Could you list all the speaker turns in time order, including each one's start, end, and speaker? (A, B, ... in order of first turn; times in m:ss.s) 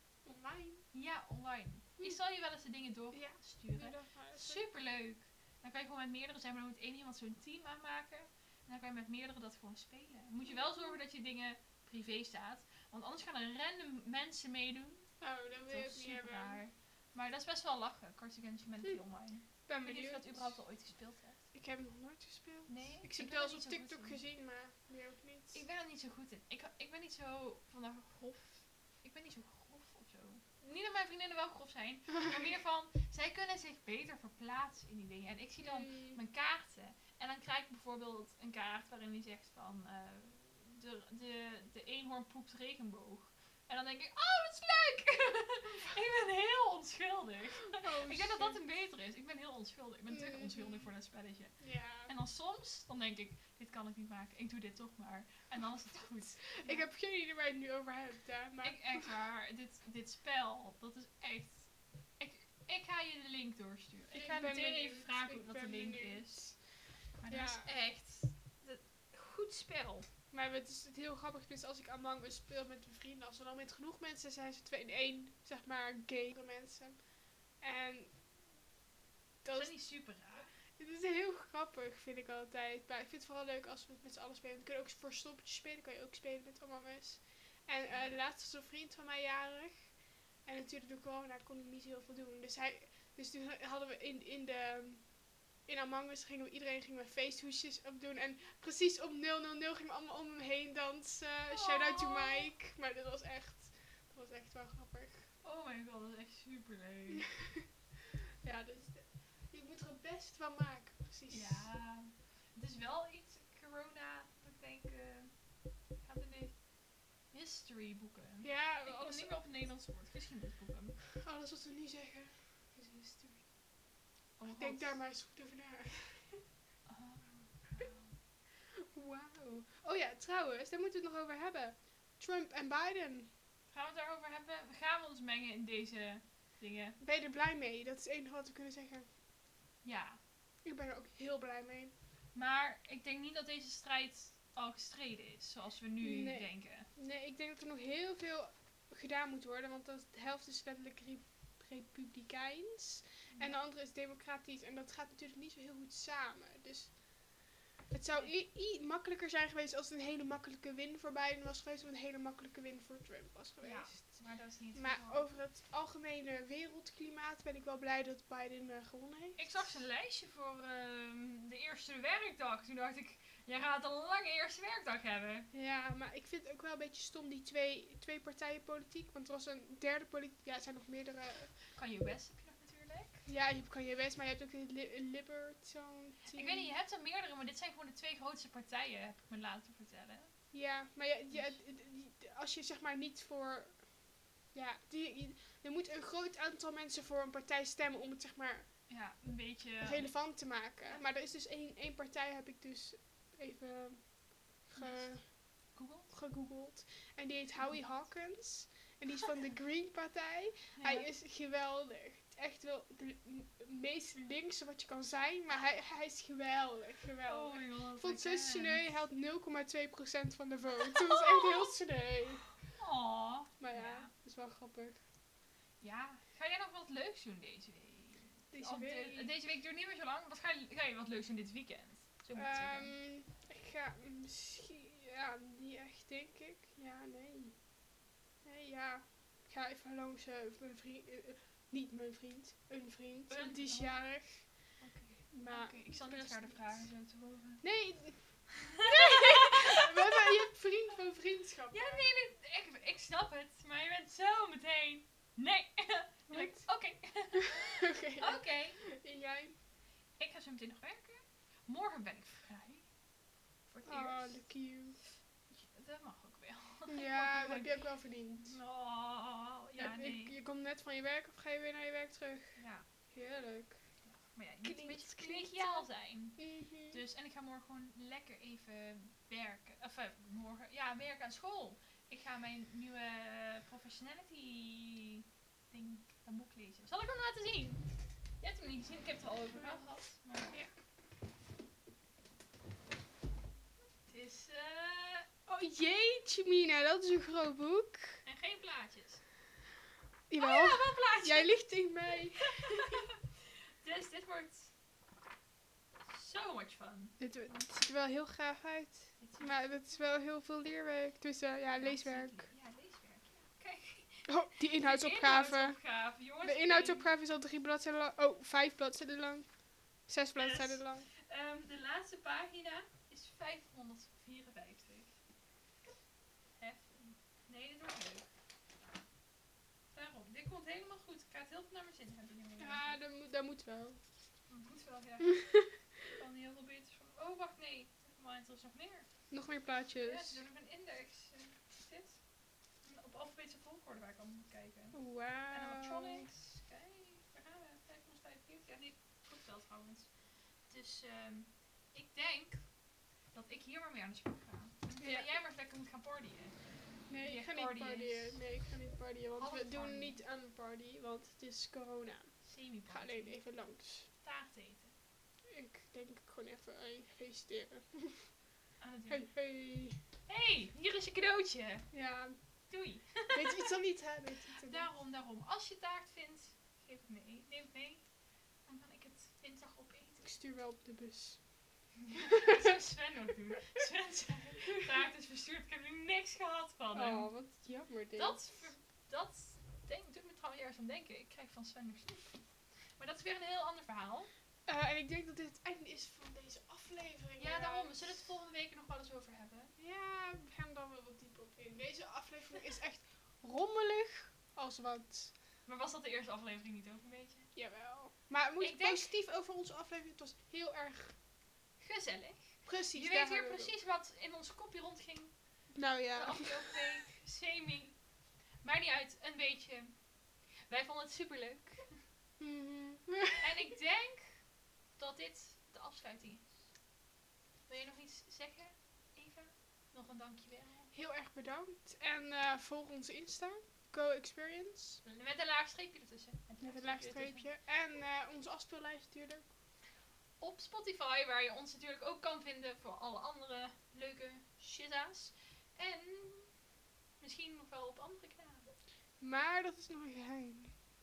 0:00.2-0:00.8 A
0:00.9-0:21.4 B
0:03.1-0:04.6 A
0:10.4-0:11.0 A
0:15.2-0:16.6 A
0:19.6-0:20.6 A
0:21.5-0:25.6 A
0:22.7-0:24.2 B
0:25.5-0:56.8 B
0:35.6-0:36.2 A
0:47.7-0:48.6 A
0:50.1-0:50.9 A
0:51.6-0:52.1 A
0:56.6-0:59.1 A
0:58.6-1:06.6 B
1:04.1-1:06.6 A
1:07.2-1:10.1 B
1:07.3-1:07.7 A
1:10.3-1:18.4 A
1:19.4-1:19.8 A
1:19.5-1:20.5 B
1:20.8-1:45.3 A
1:41.5-1:42.5 B
1:45.4-1:47.2 B
1:47.3-1:47.7 A
1:48.4-1:51.7 A
1:51.3-2:01.0 B
1:58.4-1:59.4 A
2:01.2-2:03.4 A
2:04.4-2:05.0 B
2:04.5-2:06.4 A
2:06.9-2:08.2 B
2:08.7-2:13.3 A
2:13.7-2:17.0 B
2:17.0-2:19.1 A
2:19.8-2:20.2 B
2:20.6-2:21.9 A
2:22.3-2:26.9 B
2:26.0-2:44.2 A
2:33.3-2:33.6 B
2:43.6-2:45.3 B
2:44.7-2:49.7 A
2:49.4-2:55.5 B
2:55.5-3:01.5 A
3:01.7-3:03.2 B
3:03.3-3:06.7 A
3:06.3-3:10.3 B
3:10.5-3:13.9 A
3:11.3-3:11.6 B
3:14.5-3:18.7 A
3:18.9-3:20.1 B
3:19.8-3:42.4 A
3:24.7-3:26.1 B
3:30.8-3:31.1 B
3:37.3-3:38.9 B
3:41.1-3:41.7 B
3:42.7-3:44.1 B
3:43.6-3:45.0 A
3:45.8-3:52.9 B
3:48.5-3:49.3 A
3:52.3-3:57.7 A
3:58.4-4:04.5 A
4:03.3-4:07.6 B
4:05.3-4:06.9 A
4:07.6-4:12.0 A
4:08.6-4:10.0 B
4:11.7-4:18.8 B
4:16.3-4:16.6 A
4:17.8-4:19.6 A
4:20.2-4:22.8 B
4:23.7-4:24.4 B
4:23.8-4:25.0 A
4:25.5-4:27.8 B
4:26.9-4:28.6 A
4:28.4-4:30.3 B
4:29.8-4:32.6 A
4:32.6-4:32.8 B
4:33.1-4:33.8 A
4:34.0-4:47.9 B
4:34.6-4:37.0 A
4:48.4-4:50.5 B
4:49.6-4:49.8 A
4:54.1-4:55.3 B
4:55.5-4:58.2 A
4:58.2-4:59.2 B
5:00.3-5:03.0 A
5:00.4-5:01.7 B
5:02.4-5:03.2 B
5:03.8-5:04.7 B
5:06.1-5:07.2 B
5:07.2-5:12.5 A
5:09.2-5:09.7 B
5:11.8-5:17.1 B
5:14.3-5:21.1 A
5:20.4-5:25.1 B
5:26.6-5:28.3 B
5:29.9-5:33.0 B
5:32.6-5:34.0 A
5:34.5-5:39.1 B
5:39.3-5:40.4 A
5:40.0-5:42.2 B
5:42.8-5:50.1 B
5:44.9-5:46.3 A
5:50.7-5:52.7 B
5:53.3-5:56.6 B
5:55.0-5:55.3 A
5:57.1-6:04.1 A
5:57.2-5:58.4 B
5:59.4-6:00.2 B
6:02.4-6:03.4 B
6:04.2-6:04.9 B
6:05.5-6:08.3 A
6:08.8-6:09.2 B
6:09.1-6:10.0 A
6:10.3-6:11.9 B
6:11.9-6:12.4 A
6:12.7-6:13.7 B
6:13.3-6:14.9 A
6:14.6-6:18.0 B
6:18.6-6:20.2 B
6:20.2-6:21.5 A
6:22.0-6:27.3 B
6:26.9-6:28.4 A
6:28.1-6:32.4 B
6:33.0-6:34.3 B
6:34.7-6:38.1 A
6:37.4-6:39.7 B
6:39.8-6:45.3 A
6:45.6-6:47.5 B
6:47.5-6:51.2 A
6:48.6-6:49.1 B
6:51.8-6:55.3 B
6:52.6-6:53.7 A
6:55.7-6:56.8 A
6:56.1-6:58.0 B
6:58.6-7:00.0 B
7:00.7-7:02.0 B
7:02.4-7:03.4 A
7:03.4-7:06.6 B
7:07.7-7:10.9 B
7:10.9-7:15.0 A
7:15.0-7:17.5 B
7:16.6-7:19.5 A
7:20.4-7:26.5 B
7:27.2-7:28.7 B
7:29.2-7:30.8 A